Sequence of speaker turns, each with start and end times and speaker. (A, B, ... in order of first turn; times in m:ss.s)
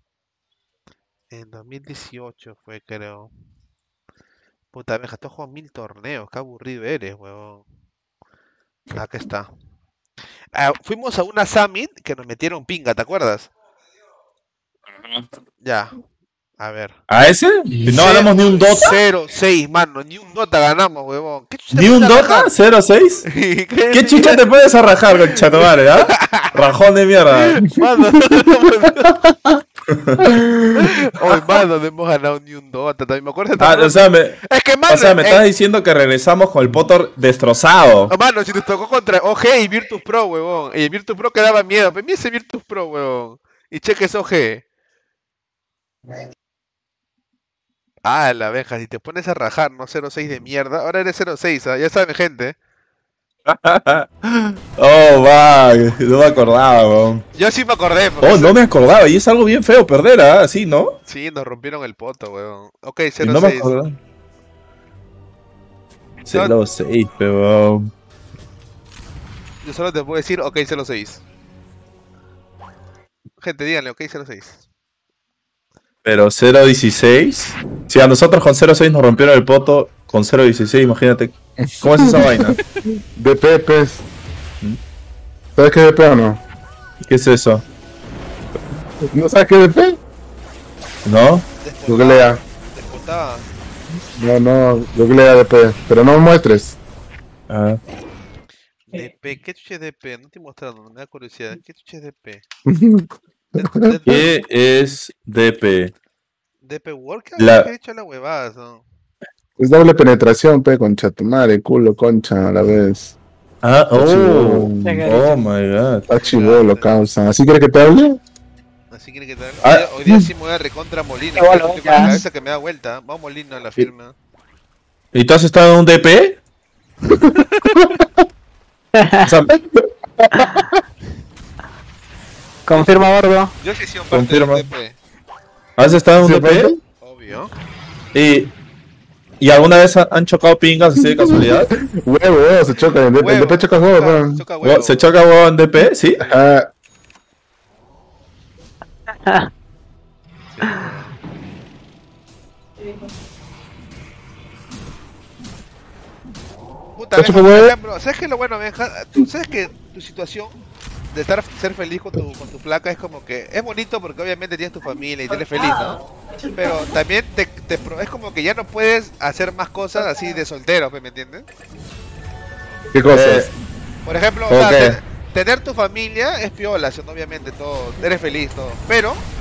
0:01.3-0:03.3 A
0:04.7-0:07.6 A
0:08.9-0:09.5 A
0:10.5-0:13.5 A
0:15.6-0:15.9 A
0:16.6-0:16.9 A
0:17.1-0:18.9 B
0:17.8-0:22.5 A
0:21.7-0:23.2 B
0:23.2-0:24.4 A
0:23.9-0:27.6 B
0:26.1-0:26.5 A
0:27.3-0:29.2 A
0:29.9-0:30.2 B
0:30.2-0:30.5 C
0:30.7-0:35.4 A
0:33.6-0:38.1 B
0:38.1-0:44.6 A
0:48.0-0:52.6 A
0:53.5-0:57.2 B
0:57.3-0:58.6 A
0:58.2-1:01.0 B
1:01.1-1:03.7 A
1:03.2-1:04.0 B
1:06.2-1:07.9 B
1:06.3-1:06.5 A
1:09.6-1:11.2 A
1:13.4-1:14.6 A
1:16.0-1:22.6 B
1:22.0-1:22.5 C
1:23.1-1:24.0 C
1:25.6-1:26.4 C
1:27.0-1:27.6 B
1:29.1-1:30.0 C
1:31.0-1:31.4 B
1:31.6-1:33.4 A
1:31.8-1:32.4 C
1:34.1-1:36.8 C
1:37.5-1:37.8 B
1:38.9-1:42.4 A
1:42.6-1:44.0 C
1:43.6-1:44.3 A
1:44.0-1:45.9 B
1:46.6-1:48.8 A
1:47.4-1:47.7 B
1:49.6-1:53.1 C
1:53.6-1:56.0 B
1:53.9-1:55.0 C
1:54.8-1:55.4 D
1:56.1-1:58.2 C
1:56.2-1:56.9 A
1:58.9-2:04.1 A
2:01.4-2:02.1 D
2:05.1-2:06.4 B
2:07.1-2:07.9 A
2:09.0-2:09.3 D
2:09.2-2:09.6 B
2:10.2-2:10.6 C
2:10.3-2:10.6 D
2:12.7-2:13.5 D
2:13.6-2:15.0 A
2:14.1-2:14.6 B
2:15.8-2:16.7 B
2:16.2-2:16.8 C
2:17.0-2:17.5 A
2:18.1-2:18.5 B
2:19.4-2:21.7 B
2:21.2-2:24.4 C
2:23.2-2:25.1 A
2:24.6-2:26.3 B
2:26.2-2:26.7 C
2:30.5-2:31.1 A
2:37.0-2:40.5 A
2:37.2-2:37.7 B
2:41.1-2:51.5 A
2:52.9-2:53.5 C
2:53.0-2:53.5 B
2:54.0-2:59.2 A
2:54.5-2:55.0 B